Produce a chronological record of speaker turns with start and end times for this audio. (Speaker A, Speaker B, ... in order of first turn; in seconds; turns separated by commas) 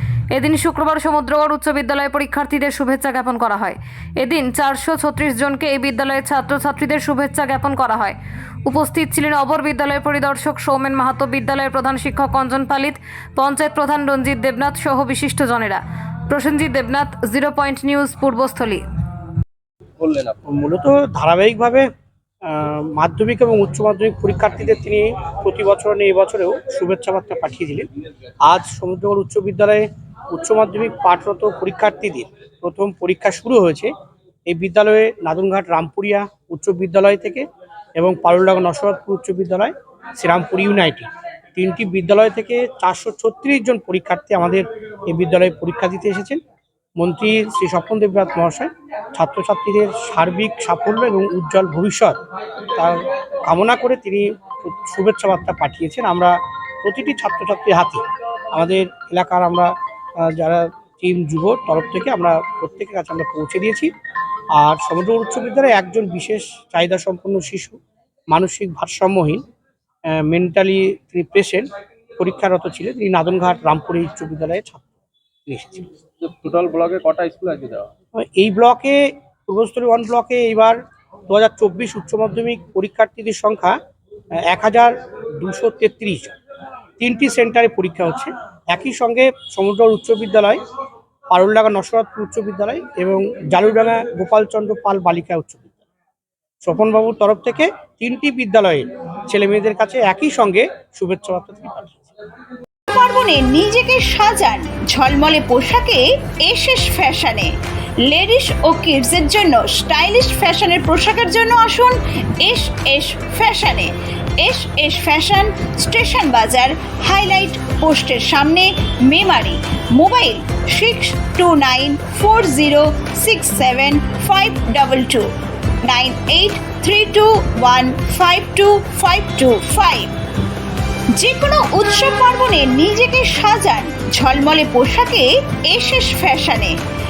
Speaker A: 0.3-18.8, Speaker B: 20.0-20.4, Speaker C: 20.4-21.9, Speaker C: 22.4-27.9, Speaker C: 28.4-33.9, Speaker C: 34.5-37.4, Speaker C: 38.0-46.4, Speaker C: 47.0-52.2, Speaker C: 52.8-63.9, Speaker C: 64.5-67.8, Speaker C: 68.3-69.4, Speaker C: 70.1-74.9, Speaker C: 75.5-75.8, Speaker B: 76.2-77.9, Speaker C: 78.1-80.8, Speaker C: 81.3-83.8, Speaker C: 84.4-86.3, Speaker C: 87.0-90.6, Speaker C: 91.3-95.7, Speaker C: 96.6-102.1, Speaker D: 102.9-107.5, Speaker D: 108.0-125.3, Speaker D: 125.8-130.1, Speaker D: 131.2-136.7